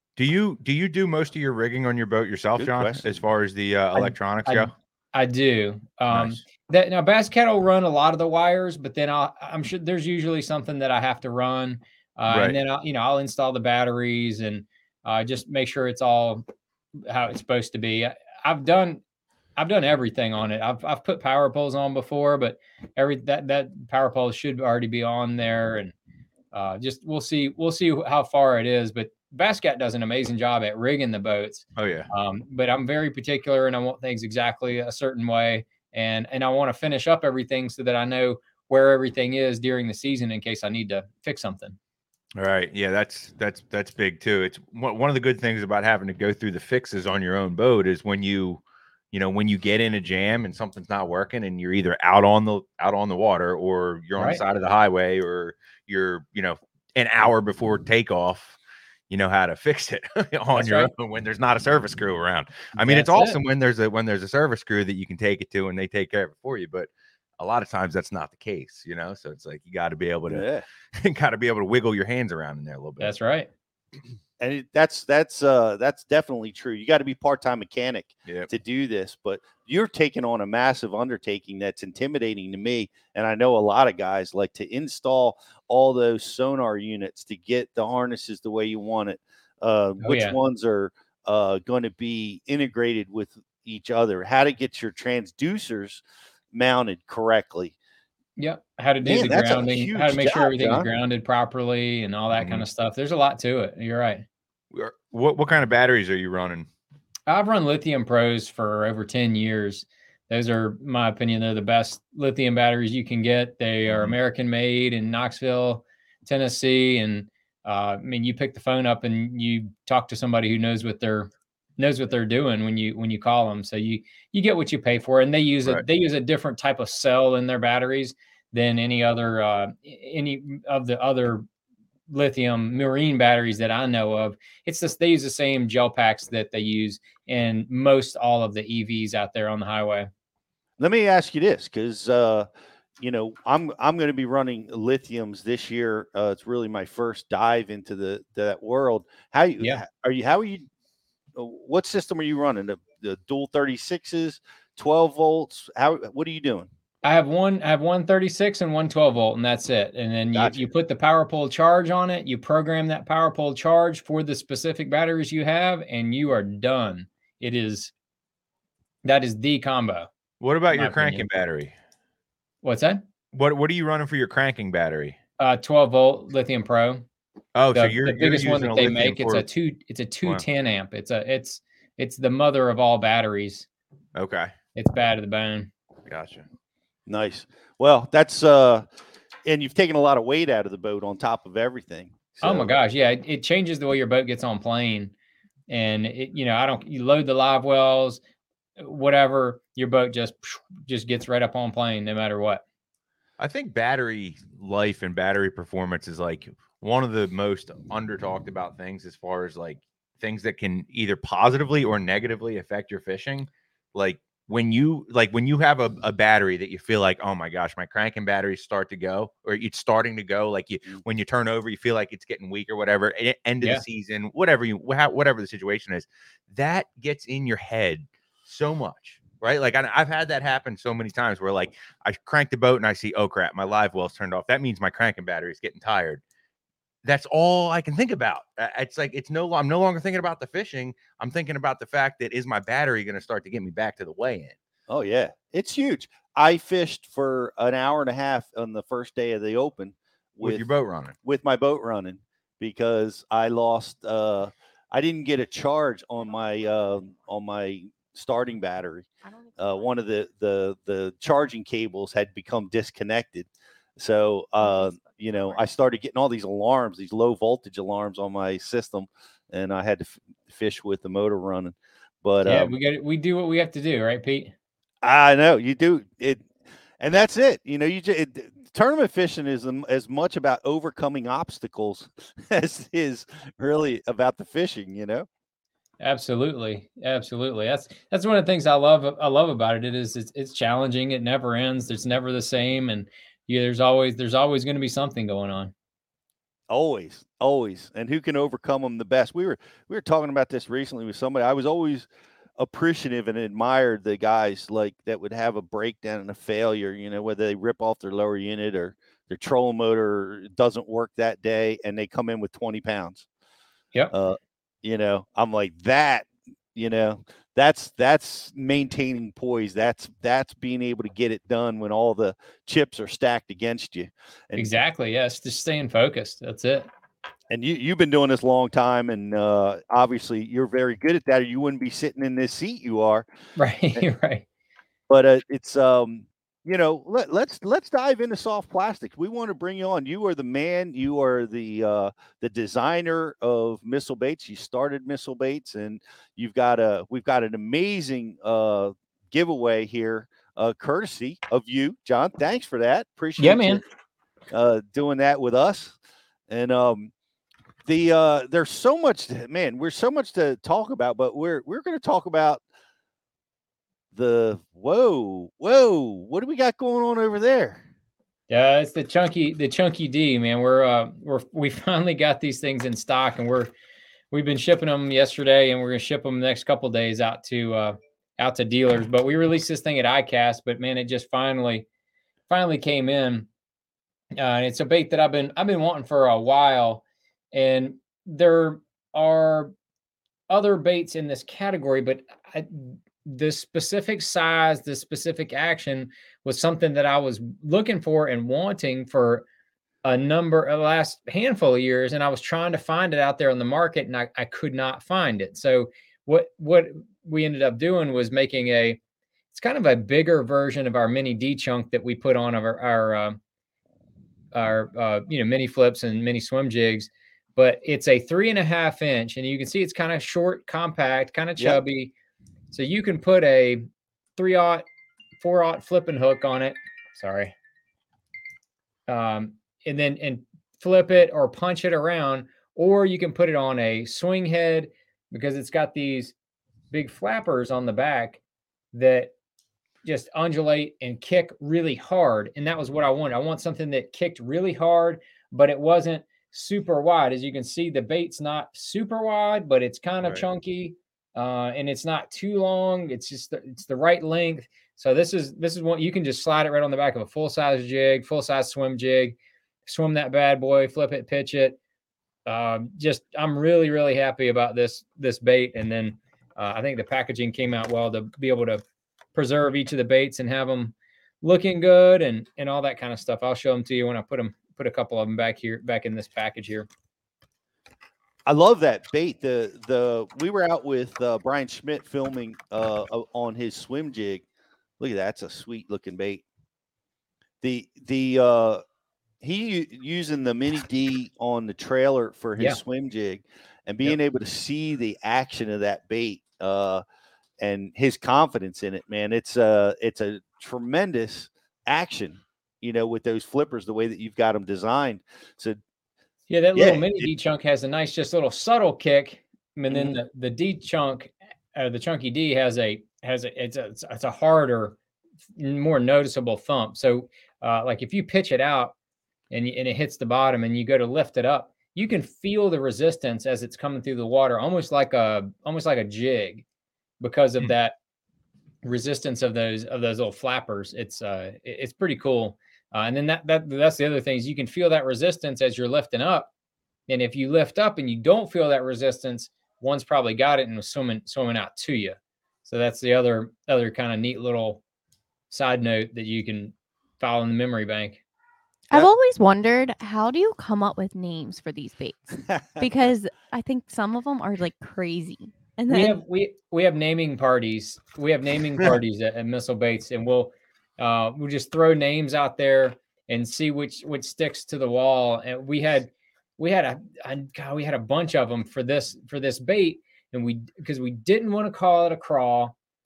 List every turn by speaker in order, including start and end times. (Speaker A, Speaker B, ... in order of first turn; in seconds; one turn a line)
Speaker A: 0.2-4.7
Speaker B: 2.6-3.0
Speaker C: 4.0-16.4
Speaker A: 6.1-6.4
Speaker A: 12.3-12.6
Speaker C: 17.1-19.0
Speaker C: 19.6-25.9
Speaker C: 26.5-41.8
Speaker A: 31.8-32.1
Speaker A: 42.4-58.6
Speaker A: 59.1-70.5
Speaker C: 60.5-60.9
Speaker C: 62.8-63.4
Speaker B: 70.3-70.7
Speaker A: 71.0-73.1
Speaker C: 73.0-73.5
Speaker B: 74.4-97.8
Speaker C: 90.0-90.4
Speaker C: 98.4-104.2
Speaker B: 99.0-100.9
Speaker A: 102.3-102.7
Speaker A: 104.7-106.7
Speaker C: 107.3-131.5
Speaker A: 113.9-114.2
Speaker C: 132.1-140.1
Speaker B: 140.8-142.5
Speaker B: 143.0-150.7
Speaker B: 151.3-156.7
Speaker C: 157.0-167.9
Speaker B: 160.3-160.7
Speaker C: 169.1-170.1
Speaker A: 170.4-171.7
Speaker C: 170.7-171.2
Speaker C: 172.6-173.0
Speaker A: 173.3-175.2
Speaker C: 175.4-177.1
Speaker A: 177.6-179.4
Speaker C: 177.7-183.7
Speaker A: 184.2-184.5
Speaker C: 184.8-185.7
Speaker A: 186.1-186.5
Speaker B: 187.1-188.9
Speaker B: 189.4-192.7
Speaker C: 192.4-195.1
Speaker C: 195.7-198.2
Speaker C: 198.8-202.6
Speaker A: 203.4-236.2
Speaker A: 237.0-244.6
Speaker B: 244.9-250.7
Speaker A: 250.4-251.2
Speaker B: 251.2-272.7
Speaker D: 259.2-259.9
Speaker D: 264.6-265.1
Speaker C: 272.4-274.5
Speaker B: 275.0-276.5
Speaker B: 277.0-285.3
Speaker C: 286.0-295.7
Speaker B: 296.7-313.3
Speaker B: 314.1-324.7
Speaker C: 324.6-326.9
Speaker B: 327.5-333.3
Speaker C: 333.6-334.4
Speaker B: 335.1-353.8
Speaker C: 353.4-353.8
Speaker B: 354.5-356.0
Speaker B: 356.5-357.1
Speaker B: 357.9-362.6
Speaker B: 364.1-367.8
Speaker C: 368.5-373.7
Speaker C: 374.3-381.9
Speaker C: 382.5-383.5
Speaker C: 384.4-389.7
Speaker C: 390.5-399.4
Speaker C: 400.0-409.0
Speaker C: 409.5-413.4
Speaker C: 414.5-422.1
Speaker B: 421.6-421.8
Speaker C: 422.7-424.9
Speaker C: 425.4-427.5
Speaker C: 429.1-436.3
Speaker C: 436.9-438.4
Speaker C: 438.9-439.3
Speaker C: 440.0-461.8
Speaker C: 462.5-468.8
Speaker C: 469.4-476.9
Speaker B: 478.5-484.4
Speaker B: 485.0-486.4
Speaker B: 487.6-488.8
Speaker B: 489.4-497.0
Speaker B: 497.6-505.8
Speaker C: 506.5-515.0
Speaker B: 506.8-507.3
Speaker B: 509.9-510.1
Speaker C: 515.6-519.0
Speaker C: 519.5-526.6
Speaker C: 527.2-528.0
Speaker C: 528.8-536.5
Speaker C: 537.1-544.8
Speaker C: 545.5-548.2
Speaker D: 548.9-556.2
Speaker C: 555.9-572.7